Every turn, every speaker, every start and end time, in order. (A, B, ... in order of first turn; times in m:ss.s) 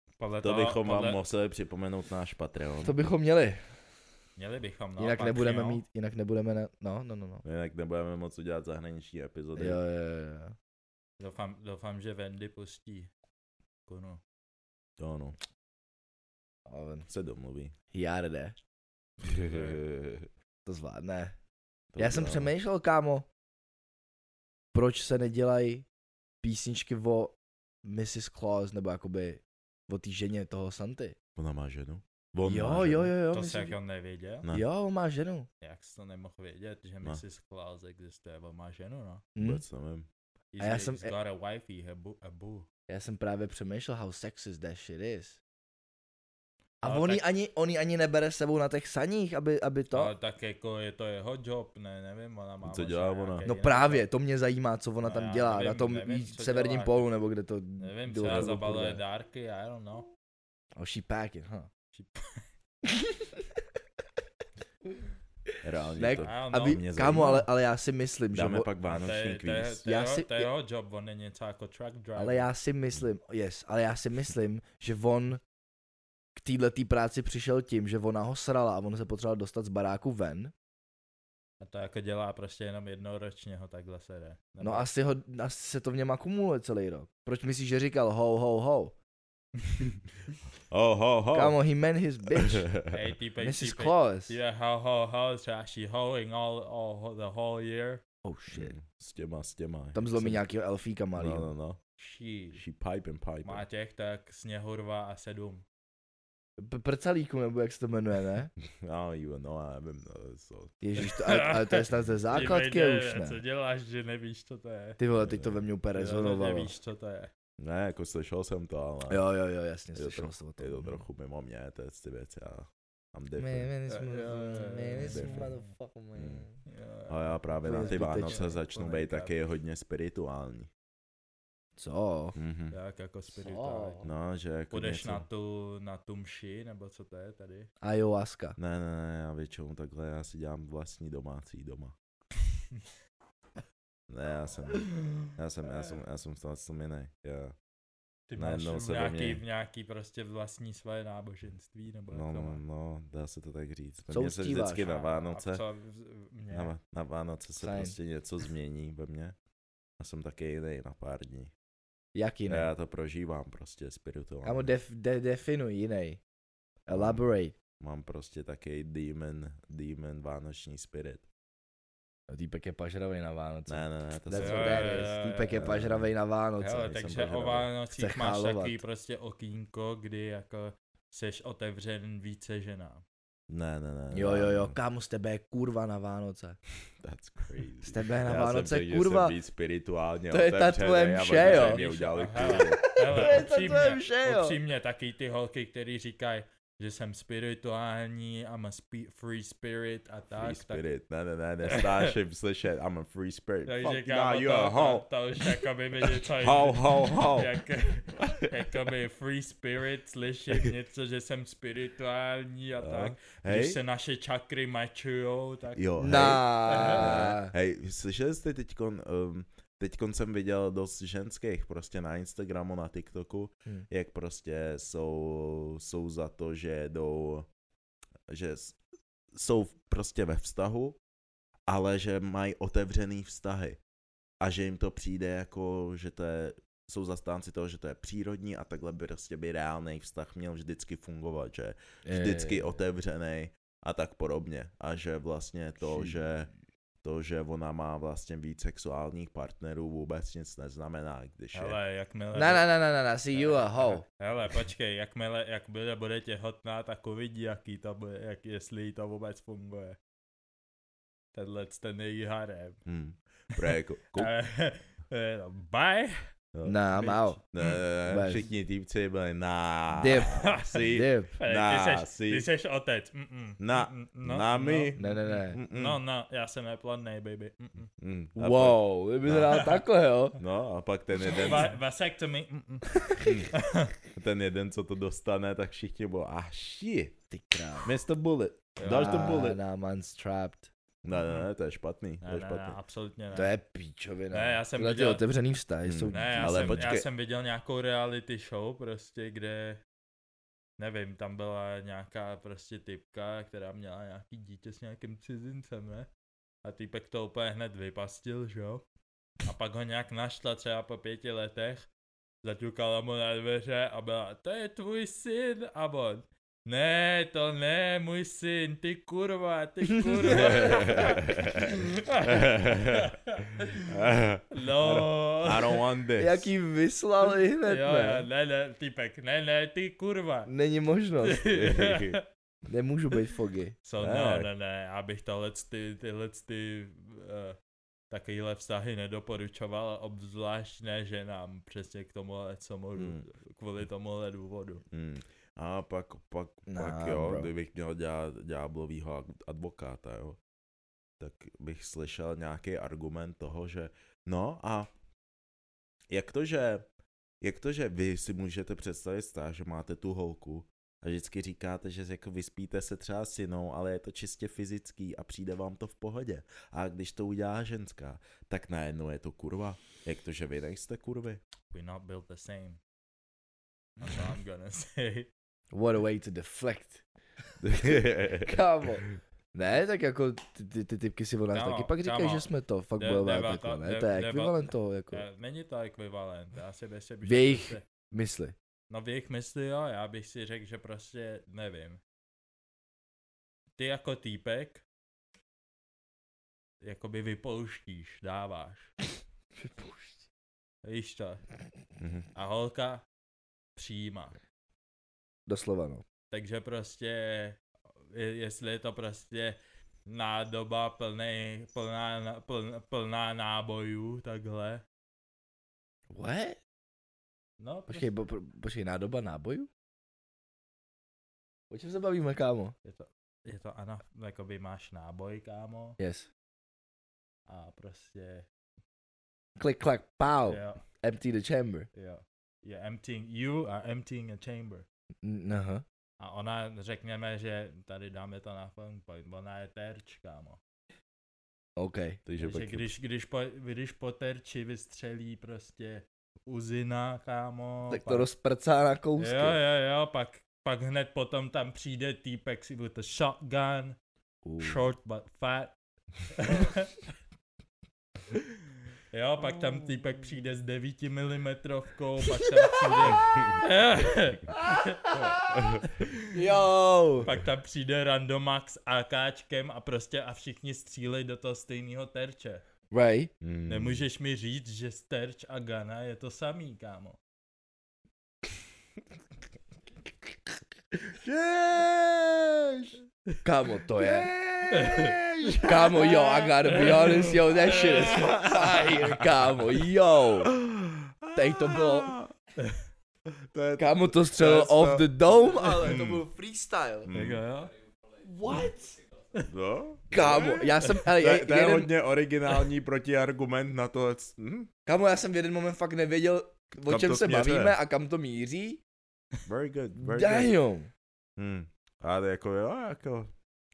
0:00.2-0:01.3 A
0:00.4-0:02.9 B
0:02.8-0:03.7 C
0:04.4-0:05.8 A
0:05.0-0:07.4 C
0:07.4-0:09.8 B
0:09.6-0:10.6 C
0:11.2-0:13.1 A
0:13.9-0:14.2 A
0:15.0-0:15.4 B
0:16.6-0:17.1 C
0:17.1-0:17.7 B
0:17.9-0:18.6 C
0:19.2-0:20.3 B
0:19.3-0:19.8 A
0:20.6-0:21.4 C
0:21.9-0:22.5 B
0:22.0-0:23.3 C
0:24.7-0:25.8 C
0:26.4-0:31.2 C
0:31.4-0:33.1 B
0:32.4-0:33.8 C
0:33.3-0:34.5 A
0:34.5-0:35.5 C
0:35.6-0:39.2 A
0:39.4-0:39.6 C
0:39.4-0:40.1 B
0:40.5-0:42.7 A
0:40.6-0:41.1 C
0:42.9-0:45.4 C
0:46.8-0:50.1 C
0:46.8-0:47.2 A
0:49.9-0:54.1 A
0:52.6-0:53.5 B
0:53.4-0:59.0 C
0:55.0-0:57.1 A
0:57.8-1:00.1 A
0:58.2-0:58.5 B
1:00.8-1:01.7 C
1:01.9-1:02.4 A
1:02.8-1:03.6 C
1:05.5-1:08.7 C
1:05.6-1:07.4 B
1:06.2-1:07.3 A
1:08.3-1:09.8 B
1:08.9-1:12.5 A
1:09.8-1:10.5 C
1:12.2-1:15.4 C
1:16.4-1:20.5 C
1:21.6-1:24.9 A
1:24.6-1:28.9 C
1:30.7-1:31.6 B
1:31.3-1:32.7 C
1:32.3-1:32.9 B
1:32.9-1:38.0 A
1:33.4-1:34.3 C
1:38.2-1:38.7 C
1:38.5-1:40.4 B
1:39.9-1:41.5 C
1:41.1-1:41.8 B
1:42.0-1:42.6 A
1:42.5-1:43.6 B
1:43.4-1:45.6 A
1:46.6-1:48.5 C
1:48.8-1:50.7 B
1:50.8-1:53.4 C
1:51.0-1:55.0 A
1:55.0-1:56.7 C
1:55.2-1:55.6 B
1:55.9-1:57.3 A
1:57.6-1:59.2 B
1:59.1-2:01.0 C
1:59.9-2:03.7 B
2:03.4-2:06.6 C
2:03.9-2:05.7 A
2:05.0-2:05.5 B
2:06.1-2:06.5 B
2:06.6-2:09.3 A
2:07.1-2:10.7 B
2:07.6-2:08.5 C
2:11.8-2:12.4 C
2:12.3-2:12.8 B
2:12.7-2:14.0 A
2:13.3-2:14.1 C
2:14.0-2:15.2 B
2:14.7-2:17.7 A
2:17.8-2:18.6 C
2:18.6-2:21.9 B
2:24.1-2:27.5 B
2:24.9-2:25.3 A
2:28.3-2:32.6 A
2:28.4-2:29.4 B
2:32.1-2:35.6 B
2:34.1-2:35.0 C
2:34.9-2:36.7 A
2:36.5-2:39.3 B
2:37.6-2:38.0 C
2:40.0-2:41.5 B
2:42.1-2:42.7 C
2:42.5-2:44.7 B
2:44.4-2:46.2 C
2:46.9-2:47.6 C
2:46.9-2:47.2 B
2:47.8-2:51.2 B
2:52.3-2:56.9 C
2:53.7-2:56.1 B
2:54.4-2:55.6 A
2:56.6-3:03.0 A
2:56.8-2:57.7 B
2:58.0-2:58.8 C
3:03.5-3:04.8 B
3:04.1-3:06.6 C
3:07.0-3:13.4 B
3:07.8-3:09.3 C
3:10.3-3:14.6 C
3:11.4-3:20.8 A
3:20.3-3:25.6 B
3:21.6-3:22.1 A
3:23.6-3:37.2 A
3:26.2-3:27.5 B
3:28.1-3:28.7 B
3:32.8-3:33.8 B
3:35.8-3:47.5 B
3:36.0-3:37.5 C
3:48.3-3:48.8 B
3:49.3-3:51.0 B
3:51.7-3:53.8 B
3:54.4-4:06.5 B
4:02.0-4:02.6 C
4:05.8-4:06.2 C
4:07.0-4:11.8 B
4:11.5-4:12.8 A
4:12.3-4:14.0 C
4:13.3-4:20.0 A
4:21.3-4:22.8 A
4:22.8-4:24.3 B
4:23.5-4:26.3 A
4:26.5-4:26.8 B
4:26.6-4:27.4 C
4:27.0-4:27.8 A
4:27.5-4:32.5 B
4:28.0-4:28.5 C
4:29.9-4:31.3 C
4:30.3-4:30.8 A
4:31.3-4:37.9 A
4:33.6-4:36.0 B
4:35.0-4:35.6 C
4:38.0-4:39.7 B
4:38.4-4:40.4 C
4:39.5-4:39.8 A
4:40.4-4:41.8 B
4:41.2-4:43.9 A
4:43.1-4:43.5 B
4:44.1-4:47.1 B
4:47.3-4:47.9 C
4:47.8-4:49.6 B
4:48.8-4:49.4 A
4:48.8-4:50.7 C
4:51.0-4:52.8 B
4:51.2-4:51.4 A
4:52.2-4:53.5 A
4:53.3-4:56.9 C
4:54.3-4:55.2 A
4:55.8-4:57.0 B
4:56.1-4:59.8 A
5:00.8-5:06.1 A
5:06.6-5:08.8 A
5:09.4-5:11.9 A
5:12.4-5:24.0 A
5:20.2-5:20.7 C
5:20.3-5:23.2 B
5:23.8-5:26.5 B
5:24.5-5:25.8 A
5:26.2-5:28.2 C
5:27.6-5:30.5 A
5:30.5-5:31.4 C
5:31.2-5:32.2 A
5:31.5-5:32.2 B
5:32.7-5:33.8 C
5:33.8-5:37.6 A
5:34.0-5:34.5 B
5:38.1-5:44.8 A
5:43.0-5:43.2 B
5:44.9-5:50.4 B
5:46.7-5:47.5 C
5:51.2-5:54.9 B
5:56.1-5:56.8 B
5:57.4-6:11.4 B
6:11.7-6:12.8 A
6:14.0-6:15.3 A
6:15.7-6:17.0 C
6:17.6-6:18.6 B
6:17.7-6:25.2 C
6:21.5-6:27.8 A
6:27.2-6:28.6 C
6:28.9-6:32.0 A
6:33.8-6:34.8 A
6:36.8-6:38.9 A
6:39.6-6:40.3 C
6:40.8-6:41.4 A
6:42.0-6:42.3 B
6:42.3-6:43.0 A
6:43.8-6:44.4 A
6:45.5-6:46.0 C
6:46.3-6:47.6 A
6:48.1-6:54.8 A
6:56.1-6:56.6 C
6:57.6-6:58.1 A
6:57.9-6:59.7 C
7:01.7-7:02.7 C
7:02.8-7:06.0 A
7:06.0-7:06.3 C
7:07.5-7:08.5 A
7:09.6-7:11.9 C
7:10.5-7:10.8 A
7:11.9-7:14.9 A
7:15.2-7:15.8 C
7:16.2-7:20.6 A
7:21.8-7:22.2 C
7:22.2-7:22.9 B
7:22.4-7:28.3 A
7:27.9-7:29.6 C
7:29.2-7:34.0 A
7:34.4-7:34.8 C
7:34.6-7:35.7 A
7:36.3-7:37.0 A
7:39.1-7:46.3 A
7:44.6-7:45.4 C
7:45.5-7:45.9 B
7:46.3-7:47.3 C
7:47.2-7:52.6 A
7:52.9-7:53.3 C
7:53.4-7:54.0 B
7:53.7-7:57.2 A
8:01.0-8:03.0 B
8:03.4-8:04.3 C
8:04.0-8:09.3 B
8:04.7-8:05.7 A
8:05.6-8:10.5 C
8:06.7-8:08.9 A
8:10.4-8:12.3 B
8:11.3-8:12.1 C
8:13.5-8:15.2 B
8:13.8-8:17.1 C
8:15.7-8:16.2 B
8:17.0-8:17.4 B
8:17.1-8:17.7 A
8:18.2-8:19.0 C
8:19.5-8:24.7 B
8:20.1-8:21.9 C
8:24.8-8:28.8 C
8:26.8-8:27.8 B
8:29.4-8:30.6 B
8:30.0-8:30.9 C
8:31.4-8:33.3 B